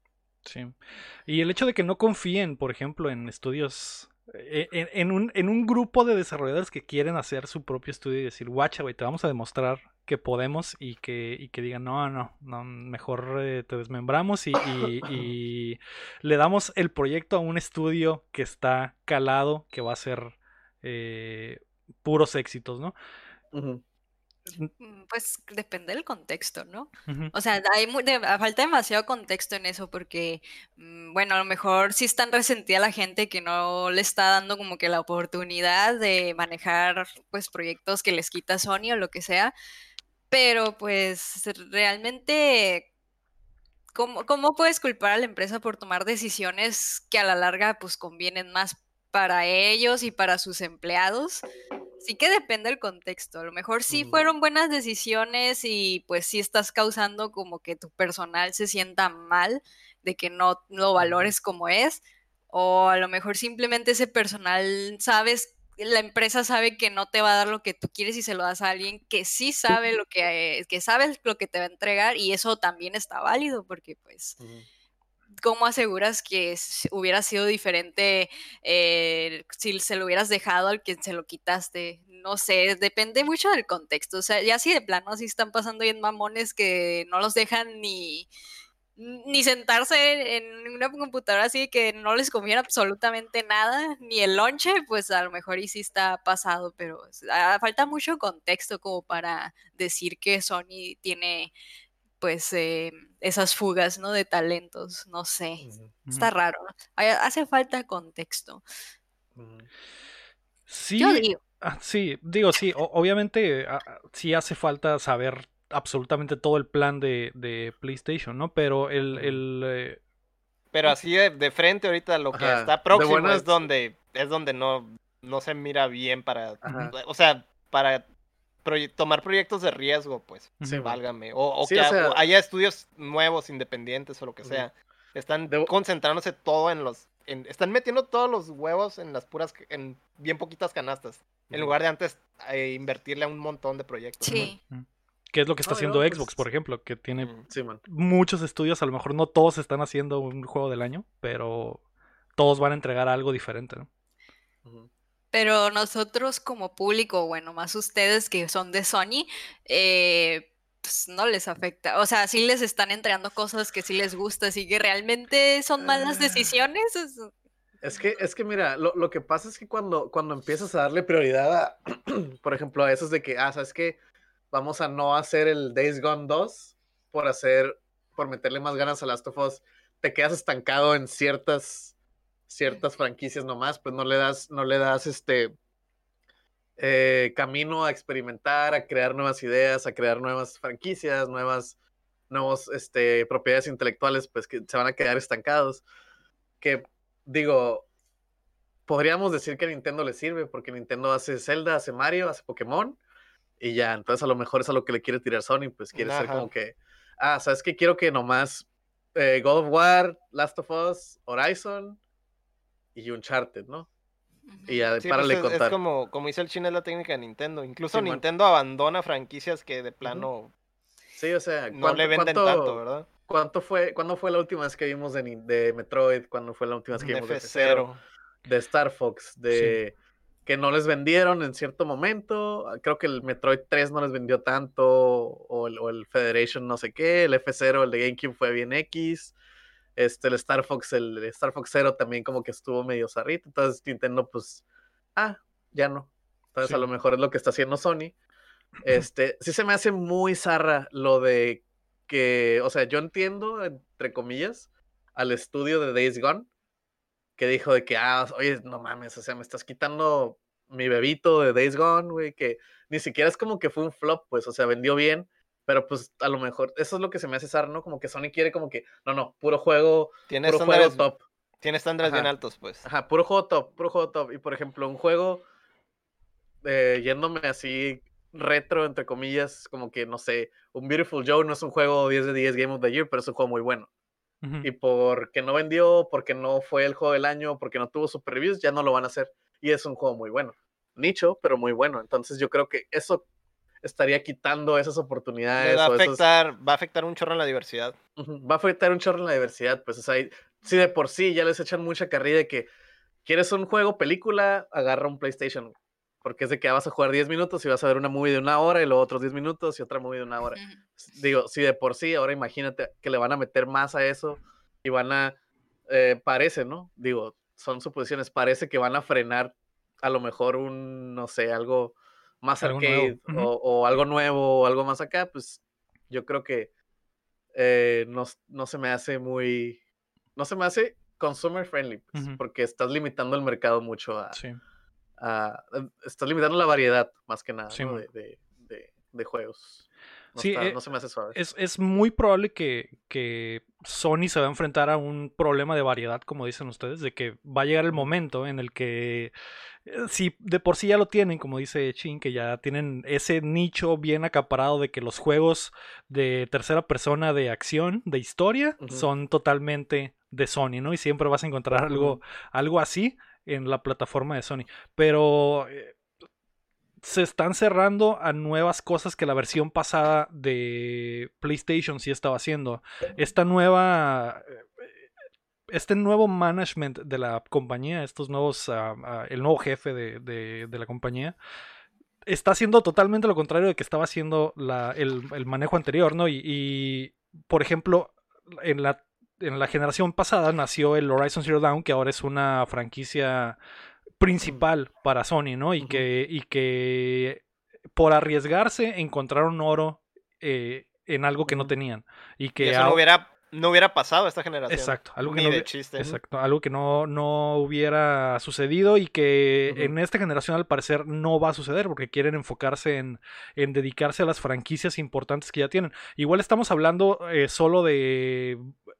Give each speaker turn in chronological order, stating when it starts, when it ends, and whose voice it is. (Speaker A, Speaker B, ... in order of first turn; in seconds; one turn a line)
Speaker A: 0.5-22.9
Speaker B: 23.5-23.8
Speaker C: 24.8-39.5
Speaker A: 27.1-27.3
Speaker C: 40.3-42.9
Speaker C: 44.0-51.5
Speaker C: 52.0-74.4
Speaker B: 53.9-54.3
Speaker B: 61.0-61.3
Speaker B: 74.4-74.7
Speaker C: 75.4-88.3
Speaker C: 89.0-101.5
Speaker C: 102.2-108.6
Speaker B: 105.6-105.9
Speaker B: 109.4-109.7
Speaker A: 110.7-120.0
Speaker C: 111.0-111.4
Speaker B: 119.1-119.4
Speaker D: 120.7-128.1
Speaker B: 122.3-123.6
Speaker B: 126.6-126.9
Speaker A: 126.7-126.9
Speaker D: 128.6-144.5
Speaker A: 130.6-130.9
Speaker B: 130.6-131.0
Speaker B: 131.6-132.2
Speaker B: 135.5-135.7
Speaker B: 141.5-141.8
Speaker C: 144.2-144.6
Speaker A: 144.7-147.3
Speaker B: 145.7-146.4
Speaker D: 147.2-147.5
Speaker B: 147.5-147.8
Speaker A: 147.8-151.8
Speaker A: 152.4-153.9
Speaker B: 154.6-154.9
Speaker C: 155.3-167.3
Speaker B: 165.8-166.5
Speaker B: 167.8-174.0
Speaker B: 174.5-181.9
Speaker B: 182.5-185.5
Speaker B: 186.8-191.8
Speaker B: 192.3-195.8
Speaker B: 196.6-197.8
Speaker B: 198.9-203.0
Speaker B: 203.6-212.0
Speaker D: 205.9-206.5
Speaker B: 212.9-213.9
Speaker C: 214.5-214.9
Speaker B: 214.7-215.8
Speaker D: 215.0-220.5
Speaker B: 217.9-218.2
Speaker B: 220.0-220.3
Speaker B: 221.2-227.9
Speaker D: 221.7-223.1
Speaker D: 227.0-228.0
Speaker B: 228.4-229.9
Speaker A: 229.5-229.8
Speaker B: 230.5-239.3
Speaker B: 240.0-244.6
Speaker B: 245.2-248.1
Speaker B: 248.8-256.5
Speaker B: 257.4-271.2
Speaker D: 270.3-271.1
Speaker D: 271.6-272.8
Speaker B: 272.0-272.3
Speaker B: 272.8-275.4
Speaker B: 276.6-283.9
Speaker A: 284.4-284.7
Speaker B: 284.6-293.2
Speaker B: 293.8-296.2
Speaker D: 295.6-298.0
Speaker B: 298.2-302.7
Speaker B: 303.2-315.4
Speaker B: 315.9-326.7
Speaker A: 322.6-323.5
Speaker B: 327.5-329.8
Speaker B: 330.4-334.4
Speaker A: 334.3-334.6
Speaker B: 335.2-341.4
Speaker A: 337.7-338.1
Speaker A: 340.4-340.8
Speaker A: 341.3-349.3
Speaker A: 349.9-366.0
Speaker B: 358.8-359.1
Speaker B: 361.8-362.2
Speaker A: 367.0-374.9
Speaker A: 375.7-381.4
Speaker A: 382.3-393.6
Speaker A: 394.2-397.4
Speaker A: 398.0-403.0
Speaker B: 401.5-401.7
Speaker D: 402.6-406.2
Speaker A: 404.7-418.7